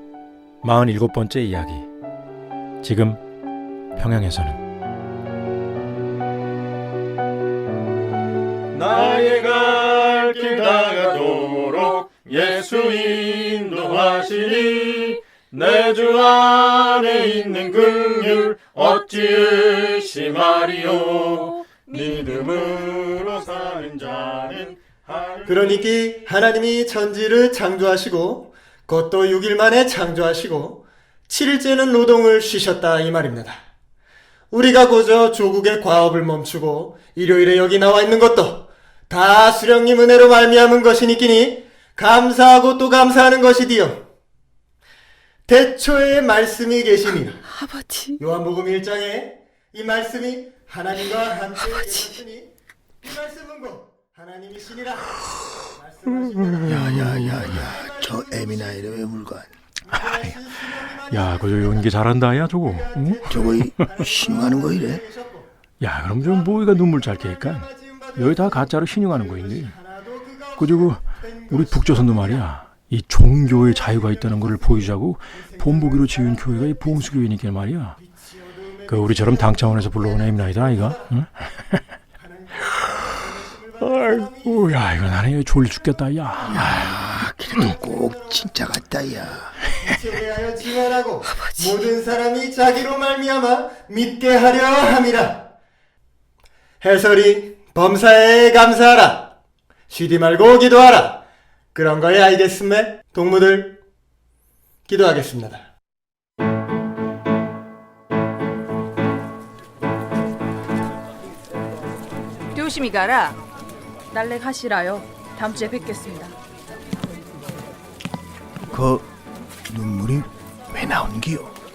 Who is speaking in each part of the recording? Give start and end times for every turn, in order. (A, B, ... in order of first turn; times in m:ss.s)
0:00.6-0:01.9 A
0:02.8-0:03.2 A
0:04.0-0:04.6 A
0:08.7-0:15.2 A
0:10.7-0:13.2 B
0:13.7-0:25.6 B
0:15.8-0:18.1 A
0:25.5-0:33.6 C
0:34.5-0:44.1 C
0:45.5-0:47.4 C
0:47.4-0:48.2 D
0:48.2-0:52.5 C
0:51.8-0:52.1 D
0:53.0-0:58.8 C
0:56.6-0:59.5 E
0:56.9-0:57.4 A
0:59.9-1:05.5 C
0:59.9-1:00.4 A
1:01.1-1:03.9 A
1:03.3-1:05.0 E
1:05.8-1:09.8 A
1:06.2-1:12.5 C
1:10.6-1:18.0 A
1:13.4-1:17.3 C
1:18.0-1:21.2 C
1:18.9-1:21.3 A
1:22.2-1:24.8 C
1:23.8-1:27.0 A
1:26.4-1:29.6 E
1:27.6-1:28.5 C
1:29.6-1:35.5 C
1:31.3-1:31.9 D
1:36.8-1:39.3 C
1:39.9-1:41.2 C
1:41.7-1:43.8 C
1:44.9-1:45.7 C
1:52.5-1:53.4 D
1:54.1-1:56.3 D
1:58.7-1:59.1 E
1:59.7-2:01.5 E